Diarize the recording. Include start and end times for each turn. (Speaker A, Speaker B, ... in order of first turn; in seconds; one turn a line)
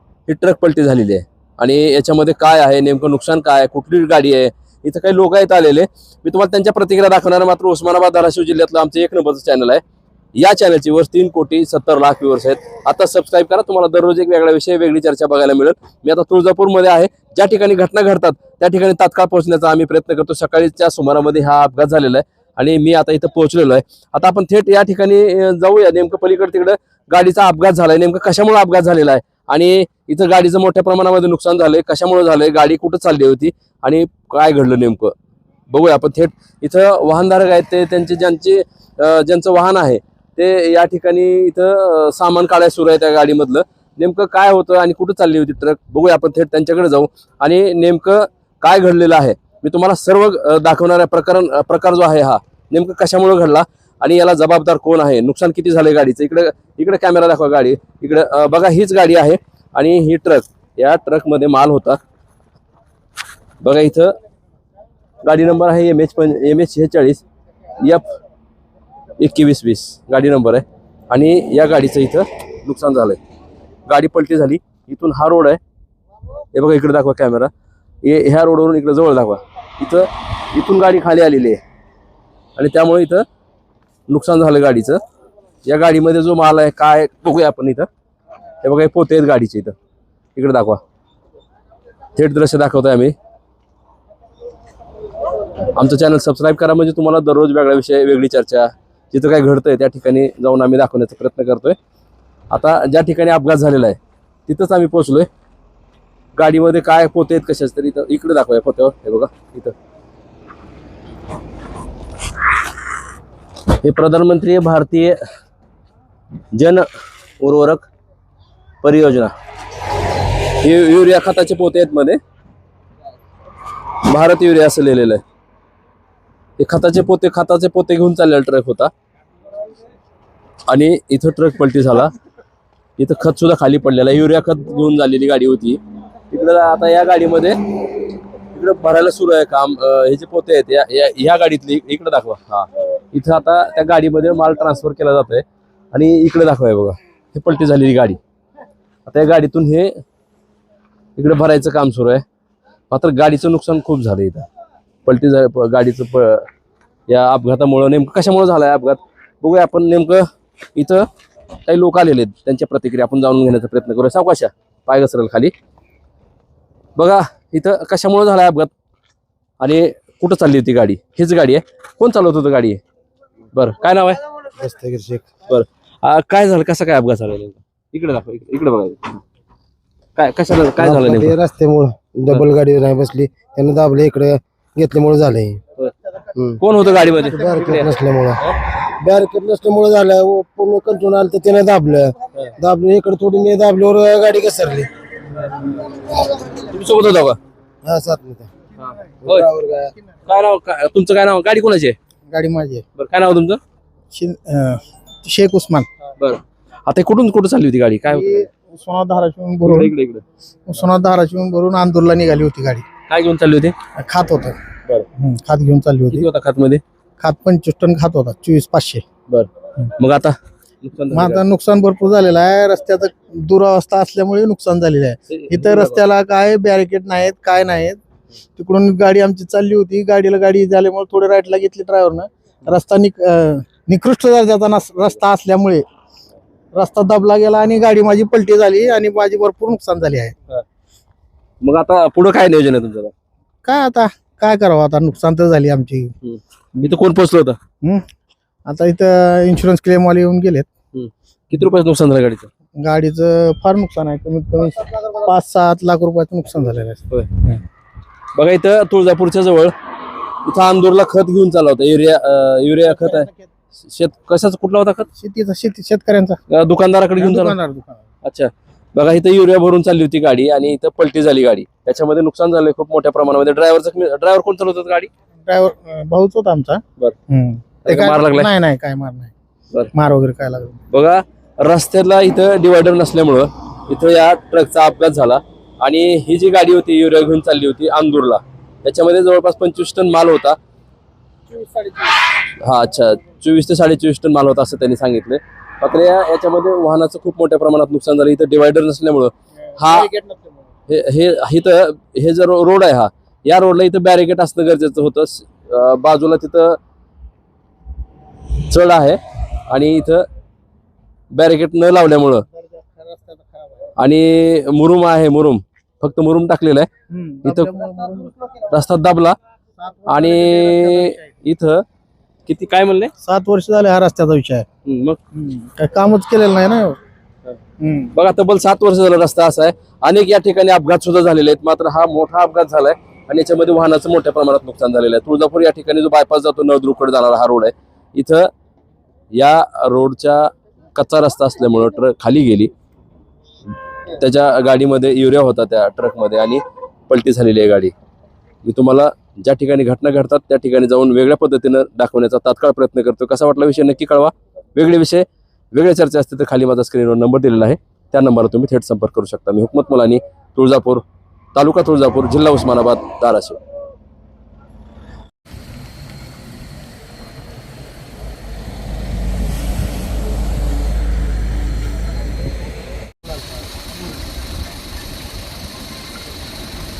Speaker A: 0.3-9.8
Speaker A: 10.3-35.1
Speaker A: 35.7-62.0
Speaker A: 63.6-64.1
Speaker A: 65.2-67.2
Speaker A: 67.8-68.0
Speaker A: 69.2-73.2
Speaker A: 73.9-75.6
Speaker A: 76.5-77.5
Speaker A: 78.0-81.6
Speaker A: 82.5-83.2
Speaker A: 84.1-85.0
Speaker A: 85.6-87.9
Speaker A: 88.6-89.7
Speaker A: 90.3-90.8
Speaker A: 92.2-93.1
Speaker A: 95.7-101.8
Speaker A: 102.5-105.3
Speaker A: 106.3-109.7
Speaker A: 113.7-115.2
Speaker A: 116.5-116.8
Speaker A: 117.4-117.9
Speaker A: 118.8-119.3
Speaker A: 120.4-122.2
Speaker A: 124.0-125.2
Speaker A: 126.6-128.9
Speaker A: 130.7-132.1
Speaker A: 133.0-135.8
Speaker A: 136.3-137.6
Speaker A: 138.5-148.2
Speaker A: 149.1-149.9
Speaker A: 151.2-152.2
Speaker A: 152.9-154.5
Speaker A: 155.1-156.5
Speaker A: 157.1-161.1
Speaker A: 161.7-165.5
Speaker A: 166.9-168.7
Speaker A: 169.6-172.8
Speaker A: 173.5-174.2
Speaker B: 174.5-175.3
Speaker A: 175.5-179.2
Speaker A: 180.2-181.3
Speaker B: 180.8-185.6
Speaker B: 186.3-186.6
Speaker A: 186.6-187.9
Speaker B: 187.2-194.9
Speaker A: 196.5-197.4
Speaker B: 197.8-198.5
Speaker A: 198.8-199.5
Speaker B: 199.2-199.9
Speaker A: 200.2-201.9
Speaker C: 202.3-202.8
Speaker A: 203.0-203.6
Speaker C: 204.1-205.9
Speaker A: 206.2-208.5
Speaker C: 208.1-209.9
Speaker A: 209.7-210.2
Speaker C: 210.7-212.8
Speaker A: 213.1-213.7
Speaker C: 213.9-214.6
Speaker C: 215.2-216.3
Speaker A: 216.1-216.8
Speaker C: 217.2-219.0
Speaker A: 219.3-221.4
Speaker C: 221.1-228.0
Speaker A: 225.3-226.0
Speaker C: 228.6-235.8
Speaker C: 236.7-240.3
Speaker A: 241.6-243.1
Speaker C: 243.6-246.1
Speaker A: 246.2-247.6
Speaker C: 248.7-250.7
Speaker A: 250.9-252.5
Speaker C: 252.8-257.6
Speaker A: 258.3-259.7
Speaker A: 260.4-263.3
Speaker C: 263.0-263.4
Speaker A: 263.8-265.1
Speaker C: 265.2-266.4
Speaker A: 266.5-267.6
Speaker C: 267.2-268.0
Speaker A: 268.2-275.1
Speaker C: 275.4-279.3
Speaker A: 277.8-278.5
Speaker C: 279.9-280.8
Speaker A: 280.9-290.6
Speaker C: 291.5-292.2
Speaker A: 292.6-300.1
Speaker C: 299.7-300.6
Speaker A: 300.9-306.8
Speaker A: 308.7-310.2
Speaker A: 311.3-312.4
Speaker C: 312.7-313.9
Speaker A: 314.0-316.9
Speaker C: 317.1-318.4
Speaker A: 317.4-317.7
Speaker A: 318.6-319.4
Speaker C: 319.8-321.3
Speaker A: 320.1-321.8
Speaker A: 322.5-323.1
Speaker C: 323.2-324.6
Speaker A: 324.9-325.2
Speaker C: 325.3-327.0
Speaker C: 327.8-328.1
Speaker A: 328.1-338.5
Speaker A: 339.3-342.7
Speaker A: 344.1-347.9
Speaker A: 348.6-361.0
Speaker A: 361.5-363.6